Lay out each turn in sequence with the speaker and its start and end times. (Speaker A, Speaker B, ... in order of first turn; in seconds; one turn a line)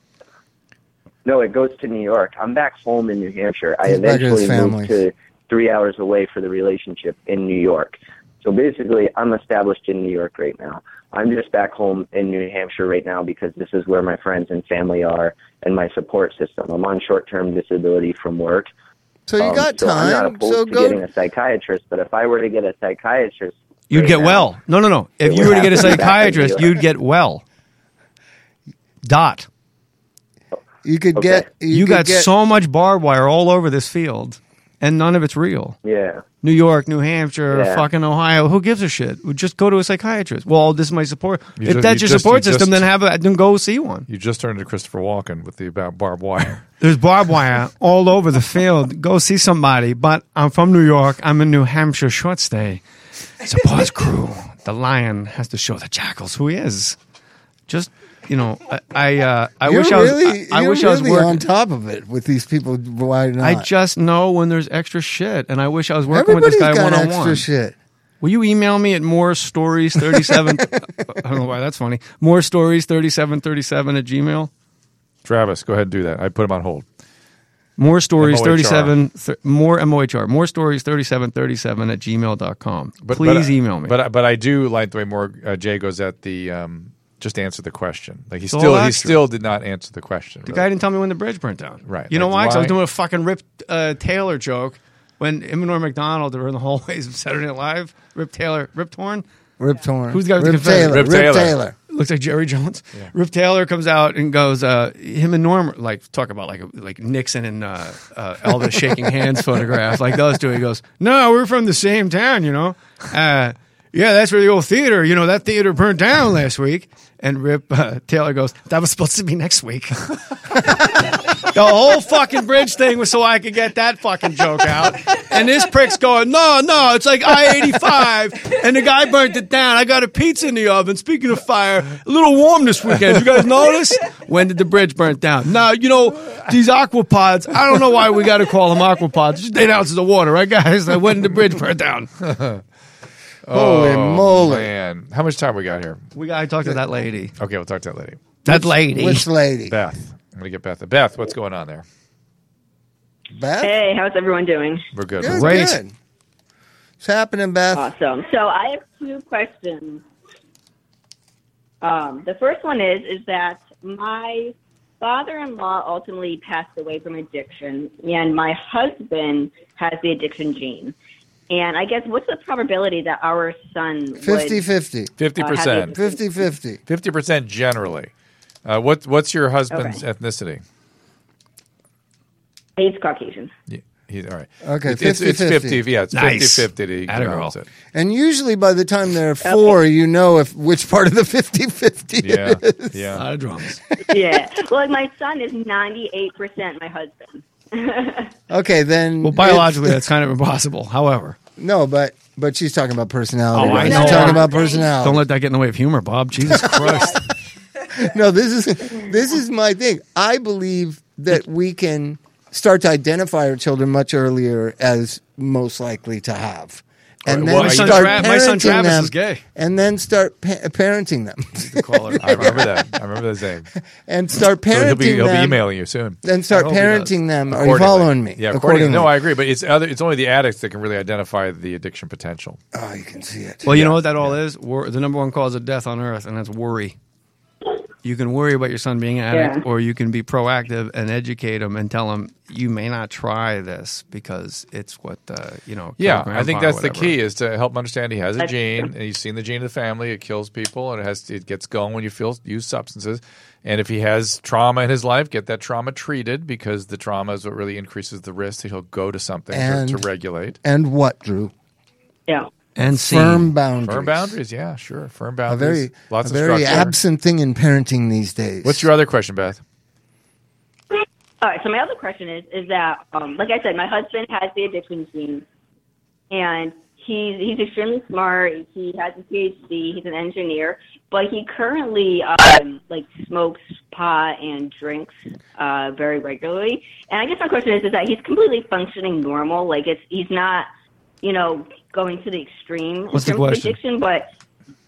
Speaker A: 1.2-18.7
Speaker B: 3.9-4.9
Speaker B: 19.3-21.0
Speaker A: 19.4-24.5
Speaker C: 23.9-27.4
Speaker A: 25.2-26.8
Speaker C: 29.0-29.5
Speaker B: 30.8-32.3
Speaker A: 31.1-31.6
Speaker C: 31.7-35.8
Speaker A: 35.8-36.2
Speaker C: 36.4-44.1
Speaker A: 37.5-37.9
Speaker D: 41.6-42.9
Speaker D: 44.1-46.6
Speaker C: 46.8-52.8
Speaker C: 53.4-57.0
Speaker C: 57.7-61.4
Speaker B: 59.6-63.7
Speaker C: 63.4-67.5
Speaker B: 66.1-67.8
Speaker C: 68.2-74.5
Speaker B: 70.1-70.5
Speaker D: 75.2-76.8
Speaker C: 77.8-83.9
Speaker D: 78.2-78.9
Speaker D: 83.0-90.7
Speaker C: 88.5-89.2
Speaker C: 90.5-99.2
Speaker D: 91.9-92.8
Speaker B: 99.6-101.7
Speaker C: 100.1-101.2
Speaker D: 100.8-101.6
Speaker C: 101.9-142.1
Speaker D: 142.2-142.6
Speaker D: 143.4-146.0
Speaker B: 143.5-144.7
Speaker C: 146.1-147.3
Speaker D: 147.4-148.4
Speaker C: 148.4-149.2
Speaker B: 148.5-149.7
Speaker D: 149.7-151.8
Speaker B: 153.3-153.7
Speaker E: 153.6-154.8
Speaker D: 154.9-155.7
Speaker B: 155.2-155.9
Speaker C: 155.2-155.8
Speaker B: 157.0-157.9
Speaker E: 157.7-160.0
Speaker E: 161.8-170.9
Speaker E: 171.5-174.6
Speaker B: 174.2-175.1
Speaker D: 175.2-176.0
Speaker E: 175.4-176.2
Speaker B: 175.9-176.8
Speaker D: 176.9-178.1
Speaker D: 178.6-180.6
Speaker E: 179.7-180.0
Speaker E: 182.8-183.5
Speaker D: 183.7-187.7
Speaker B: 184.6-185.8
Speaker C: 186.1-187.5
Speaker B: 187.9-193.2
Speaker E: 189.4-189.8
Speaker D: 192.2-193.2
Speaker C: 193.1-193.8
Speaker E: 194.1-198.3
Speaker B: 198.5-200.1
Speaker C: 199.2-201.4
Speaker B: 201.6-205.2
Speaker C: 203.5-207.2
Speaker E: 203.6-204.9
Speaker B: 206.5-207.1
Speaker B: 207.9-222.8
Speaker D: 217.2-218.5
Speaker C: 217.4-219.4
Speaker C: 221.6-222.6
Speaker D: 222.2-223.7
Speaker B: 224.0-225.6
Speaker D: 224.7-226.2
Speaker B: 226.2-229.1
Speaker C: 226.5-227.2
Speaker D: 227.5-232.6
Speaker B: 232.7-233.7
Speaker C: 233.6-236.9
Speaker D: 233.7-234.4
Speaker C: 238.0-247.2
Speaker E: 239.3-239.6
Speaker D: 246.0-260.6
Speaker E: 248.4-248.9
Speaker B: 259.5-260.0
Speaker B: 260.6-261.5
Speaker C: 262.8-263.5
Speaker B: 262.8-264.4
Speaker D: 263.8-266.9
Speaker B: 265.5-268.9
Speaker D: 268.6-269.6
Speaker E: 271.4-275.4
Speaker E: 276.3-290.7
Speaker E: 291.2-294.3
Speaker C: 293.1-293.8